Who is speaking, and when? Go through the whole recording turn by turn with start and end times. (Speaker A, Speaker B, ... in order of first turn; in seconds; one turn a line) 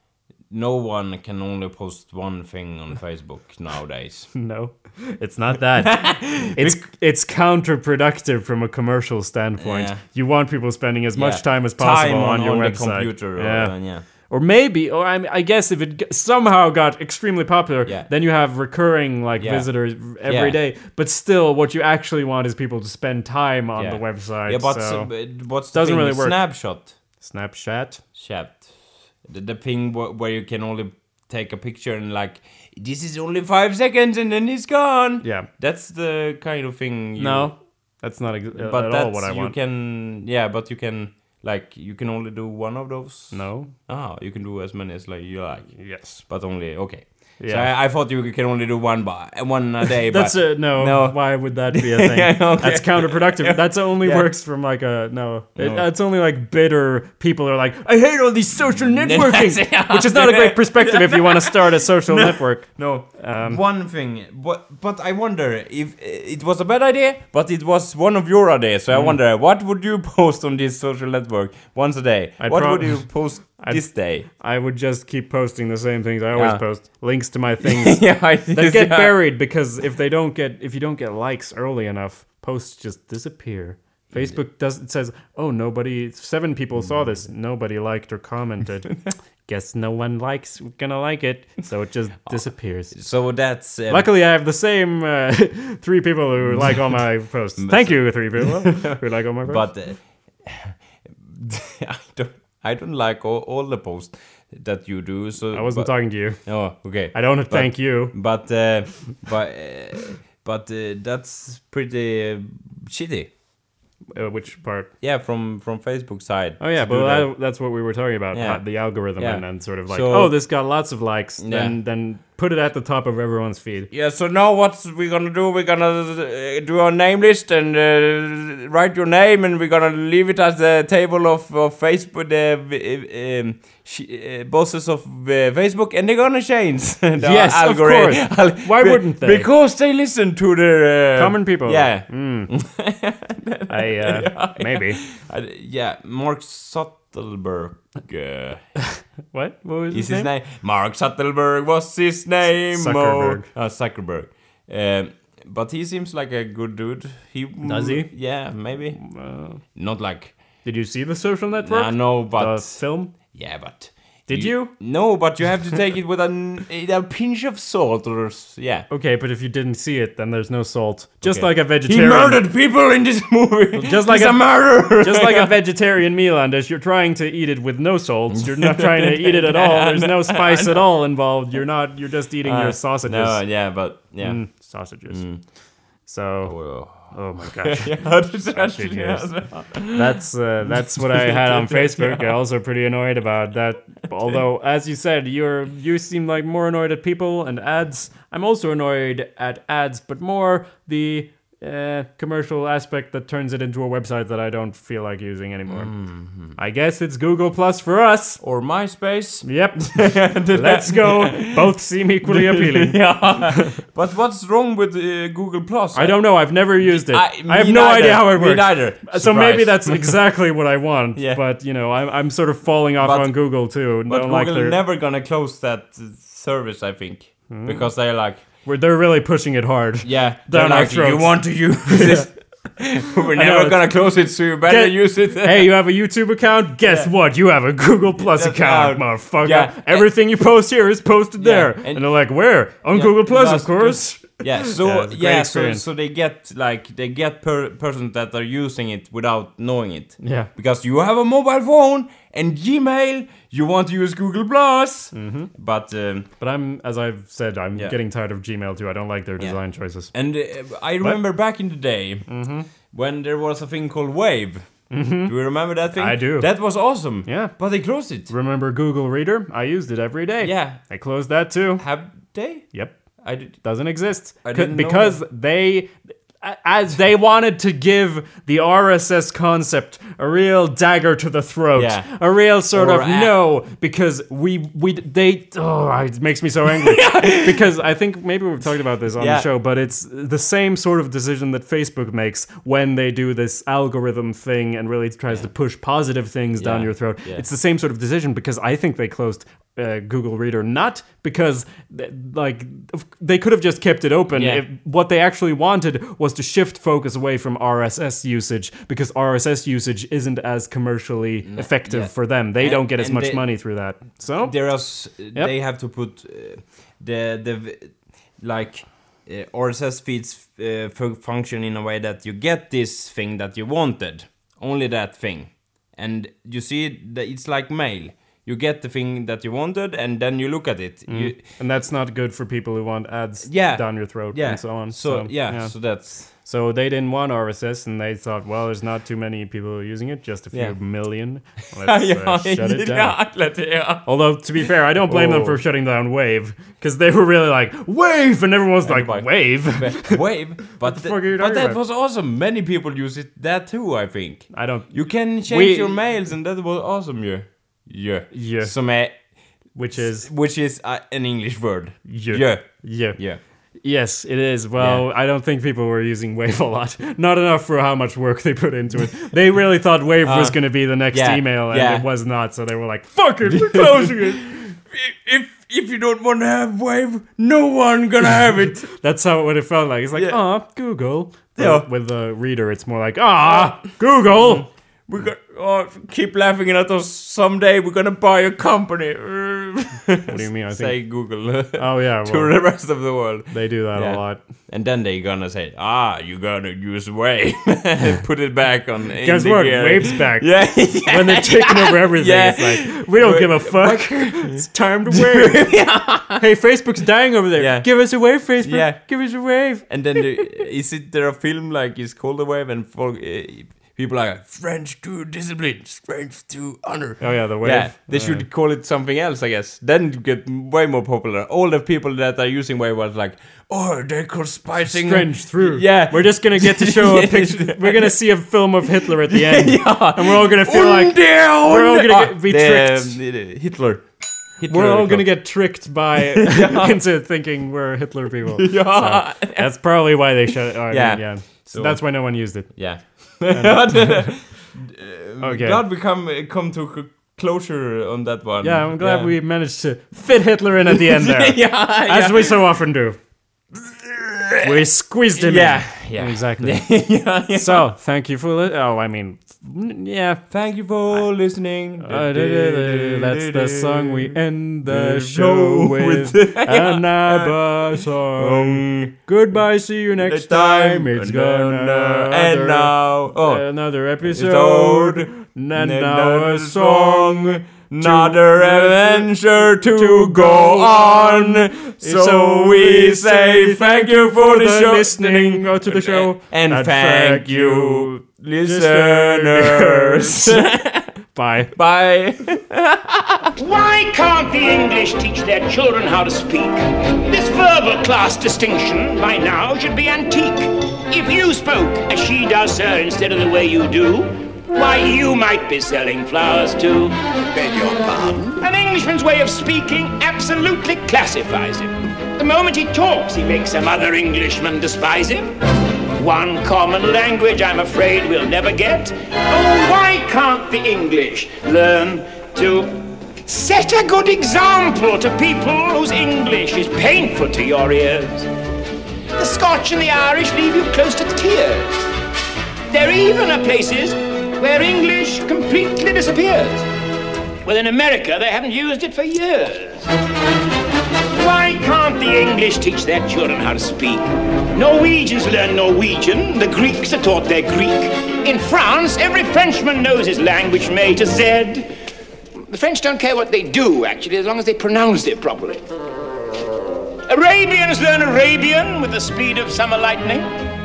Speaker A: 0.5-4.3
Speaker B: 4.3-13.7
Speaker A: 5.8-6.8
Speaker A: 9.6-10.0
Speaker A: 11.2-14.0
Speaker B: 14.3-25.1
Speaker A: 19.4-19.7
Speaker A: 20.2-20.6
Speaker A: 23.8-26.9
Speaker B: 25.7-26.4
Speaker B: 27.2-28.0
Speaker A: 28.1-28.7
Speaker A: 29.2-37.5
Speaker B: 35.2-35.5
Speaker B: 37.2-39.5
Speaker A: 38.6-51.2
Speaker B: 43.3-43.7
Speaker B: 45.8-46.2
Speaker B: 47.4-47.7
Speaker B: 50.1-63.6
Speaker A: 51.7-54.3
Speaker A: 55.6-55.9
Speaker A: 58.9-74.3
Speaker B: 72.4-92.9
Speaker A: 76.3-76.6
Speaker A: 77.6-79.2
Speaker A: 92.9-94.1
Speaker B: 93.9-99.7
Speaker A: 96.5-97.0
Speaker A: 97.6-113.3
Speaker B: 105.5-106.4
Speaker B: 107.1-108.1
Speaker B: 114.1-114.9
Speaker A: 115.0-117.3
Speaker B: 116.6-123.9
Speaker A: 118.3-118.6
Speaker A: 119.2-120.3
Speaker A: 121.4-121.8
Speaker A: 123.9-148.6
Speaker B: 137.2-139.5
Speaker B: 141.2-142.5
Speaker B: 143.7-145.0
Speaker B: 149.3-150.3
Speaker A: 149.9-159.0
Speaker B: 152.7-153.5
Speaker B: 157.6-158.1
Speaker B: 158.9-159.6
Speaker A: 159.7-160.3
Speaker B: 160.6-163.2
Speaker A: 161.6-168.9
Speaker B: 164.3-164.7
Speaker B: 168.9-172.4
Speaker A: 171.2-175.5
Speaker B: 173.7-183.4
Speaker A: 178.3-180.8
Speaker A: 182.4-184.4
Speaker B: 184.2-185.2
Speaker A: 185.1-185.4
Speaker B: 186.1-206.0
Speaker A: 186.4-190.2
Speaker A: 190.9-192.4
Speaker A: 205.7-206.6
Speaker B: 206.6-208.4
Speaker A: 208.4-216.2
Speaker B: 209.4-213.8
Speaker B: 215.9-224.8
Speaker A: 216.8-220.2
Speaker A: 221.2-221.4
Speaker A: 223.0-223.4
Speaker A: 224.1-228.4
Speaker B: 227.5-227.9
Speaker B: 228.6-232.3
Speaker A: 230.0-235.7
Speaker B: 233.3-233.9
Speaker B: 234.7-245.8
Speaker A: 236.8-237.1
Speaker A: 238.2-240.1
Speaker A: 241.4-242.0
Speaker A: 242.9-256.3
Speaker B: 250.2-250.5
Speaker B: 255.1-255.5
Speaker B: 256.4-260.1
Speaker A: 260.1-262.3
Speaker B: 262.3-262.7
Speaker A: 262.9-264.7
Speaker B: 264.9-265.3
Speaker A: 265.3-268.3
Speaker B: 265.9-266.5
Speaker B: 267.3-267.5
Speaker B: 268.3-271.9
Speaker A: 270.4-270.8
Speaker A: 271.8-272.7
Speaker A: 273.2-273.6
Speaker B: 273.6-314.6
Speaker A: 274.4-275.2
Speaker A: 281.8-282.1
Speaker A: 282.7-283.3
Speaker A: 286.7-287.6
Speaker A: 289.2-289.5
Speaker A: 296.6-297.4
Speaker A: 304.3-304.6
Speaker A: 311.4-313.5
Speaker A: 314.4-331.4
Speaker B: 331.1-335.7
Speaker A: 333.4-336.3
Speaker B: 336.3-343.2
Speaker A: 341.8-344.1
Speaker B: 344.1-351.8
Speaker A: 344.6-345.6
Speaker A: 348.8-359.2
Speaker B: 354.5-354.9
Speaker B: 355.4-355.9
Speaker B: 358.3-358.7
Speaker B: 359.8-360.3
Speaker A: 360.0-363.4
Speaker B: 362.1-363.2
Speaker B: 363.8-374.8
Speaker A: 364.8-365.1
Speaker A: 370.2-372.1
Speaker A: 373.4-378.9
Speaker B: 378.9-384.7
Speaker A: 381.6-381.9
Speaker A: 383.5-383.8
Speaker A: 384.3-406.4
Speaker B: 390.3-391.0
Speaker B: 391.8-392.5
Speaker B: 393.5-394.4
Speaker B: 399.2-400.5
Speaker B: 401.1-405.8
Speaker B: 406.3-410.2
Speaker A: 407.6-409.1
Speaker A: 409.9-428.2
Speaker B: 417.2-418.4
Speaker B: 424.9-433.2
Speaker A: 428.9-434.0
Speaker A: 434.6-435.3
Speaker B: 434.7-442.7
Speaker A: 436.2-437.0
Speaker A: 438.5-439.7
Speaker A: 440.9-442.0
Speaker A: 442.7-449.3
Speaker B: 443.5-444.3
Speaker B: 445.4-445.8
Speaker B: 448.6-453.2
Speaker A: 450.9-452.7
Speaker A: 453.7-454.7
Speaker B: 454.6-456.9
Speaker A: 455.4-457.9
Speaker B: 457.5-460.4
Speaker A: 460.5-464.3
Speaker B: 462.0-490.7
Speaker A: 464.9-469.1
Speaker A: 470.2-473.6
Speaker A: 474.2-491.1
Speaker B: 491.3-491.7
Speaker A: 491.8-493.5
Speaker C: 493.6-515.5
Speaker C: 516.2-522.9
Speaker C: 523.5-528.5
Speaker C: 529.4-532.1
Speaker C: 532.9-536.9
Speaker C: 537.7-540.1
Speaker C: 541.4-544.2
Speaker C: 544.8-551.9
Speaker C: 552.7-555.8
Speaker C: 557.3-560.5